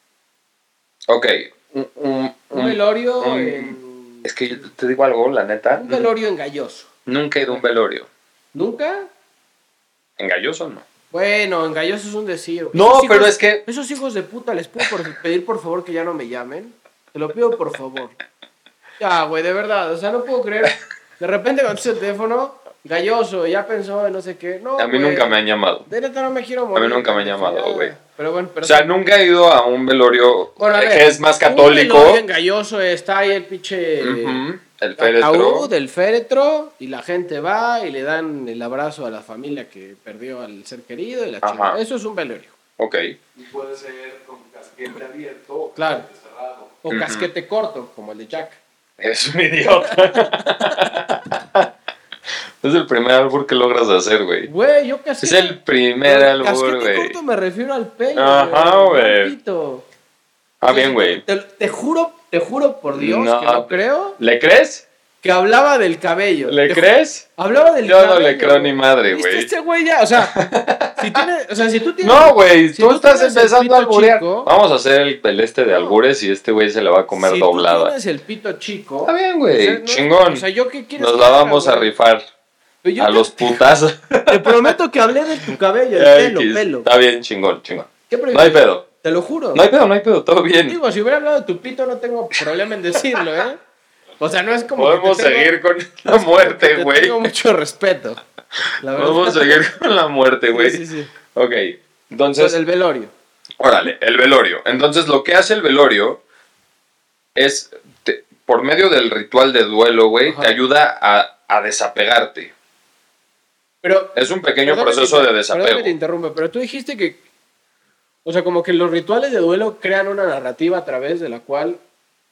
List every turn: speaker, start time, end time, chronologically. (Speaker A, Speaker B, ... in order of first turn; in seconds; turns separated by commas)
Speaker A: 1.1-6.1, Speaker B: 2.5-4.3, Speaker B: 5.7-6.9, Speaker A: 7.1-8.1, Speaker B: 8.5-9.1, Speaker A: 10.2-10.8, Speaker B: 11.1-18.2, Speaker A: 12.7-13.6, Speaker B: 19.0-28.9, Speaker A: 24.8-25.9, Speaker A: 26.8-27.9, Speaker A: 28.6-32.2, Speaker B: 30.6-34.4, Speaker A: 34.0-35.7, Speaker B: 35.0-42.6, Speaker A: 41.4-41.8, Speaker A: 42.8-43.1, Speaker C: 43.4-46.8, Speaker B: 45.8-46.1, Speaker B: 46.8-48.6, Speaker A: 46.9-47.3, Speaker A: 49.0-51.7, Speaker B: 49.7-51.0, Speaker A: 52.6-54.5, Speaker B: 54.5-59.9, Speaker A: 55.2-57.2, Speaker A: 58.1-59.3, Speaker A: 60.6-61.2, Speaker B: 60.6-64.2, Speaker A: 62.9-64.9, Speaker B: 65.2-70.4, Speaker A: 66.5-67.3, Speaker A: 67.8-69.5, Speaker A: 70.3-71.2, Speaker B: 71.0-74.5, Speaker A: 72.0-77.9, Speaker B: 75.7-76.0, Speaker B: 77.1-81.9, Speaker A: 79.0-80.5, Speaker A: 81.0-82.2, Speaker B: 82.8-83.7, Speaker A: 83.0-84.8, Speaker B: 84.3-86.9, Speaker A: 86.0-88.8, Speaker B: 88.1-89.6, Speaker A: 89.5-90.8, Speaker B: 90.7-93.6, Speaker B: 94.2-95.5, Speaker A: 94.8-97.3, Speaker B: 96.1-98.2, Speaker B: 98.8-99.6, Speaker A: 99.0-100.8, Speaker B: 100.5-101.1, Speaker A: 101.3-102.6, Speaker B: 102.4-103.1, Speaker A: 103.6-106.2, Speaker A: 107.3-112.5, Speaker B: 110.3-110.6, Speaker B: 113.8-117.2, Speaker A: 114.2-115.9, Speaker B: 118.2-121.8